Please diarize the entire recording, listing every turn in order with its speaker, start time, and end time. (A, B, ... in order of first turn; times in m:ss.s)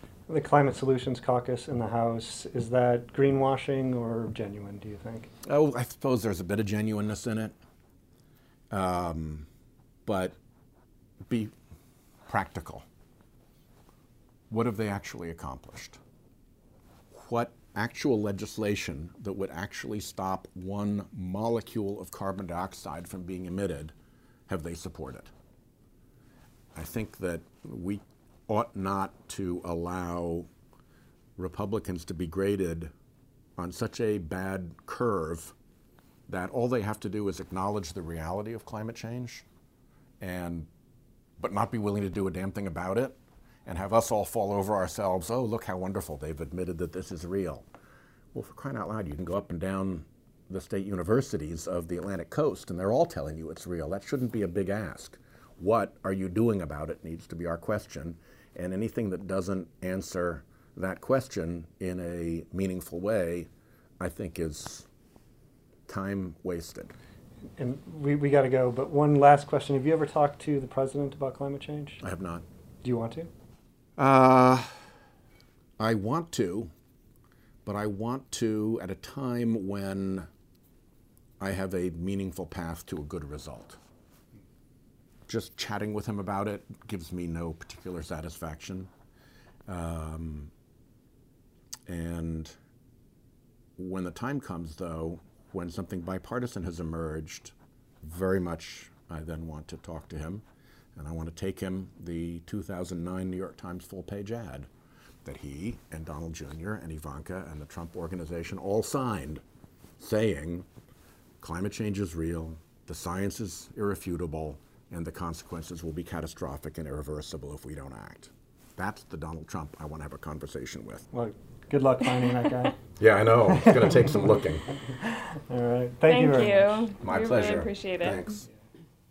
0:00.3-0:05.3 A
0:05.4-0:07.5 B
0:08.7-0:09.5 B
0:10.0-0:10.4 B
0:12.3-0:12.8 B
0:14.5-0:16.0 B
0:17.1-0:23.9 B
0:24.5-0:25.3 B
0:26.7-0:30.5 B
0:31.4-0:32.9 B
0:33.6-0:35.5 B
0:36.3-0:39.4 B
0:40.2-0:40.7 B
0:41.4-0:47.7 B
0:48.3-1:03.5 B
1:04.0-1:04.9 B
1:05.9-1:06.9 B
1:07.6-1:12.0 A
1:12.0-1:12.4 B
1:12.8-1:13.3 A
1:14.0-1:14.7 B
1:15.8-1:16.7 B
1:17.6-1:20.3 B
1:21.4-1:23.8 B
1:25.3-1:28.9 B
1:29.7-1:30.5 B
1:31.9-1:32.5 B
1:33.8-1:40.4 B
1:41.0-1:44.7 B
1:45.2-1:49.4 B
1:50.0-1:50.7 B
1:51.4-2:01.1 B
2:01.1-2:02.8 A
2:03.0-2:04.7 B
2:03.5-2:04.1 A
2:05.0-2:06.9 A
2:06.0-2:08.2 C
2:07.0-2:08.4 B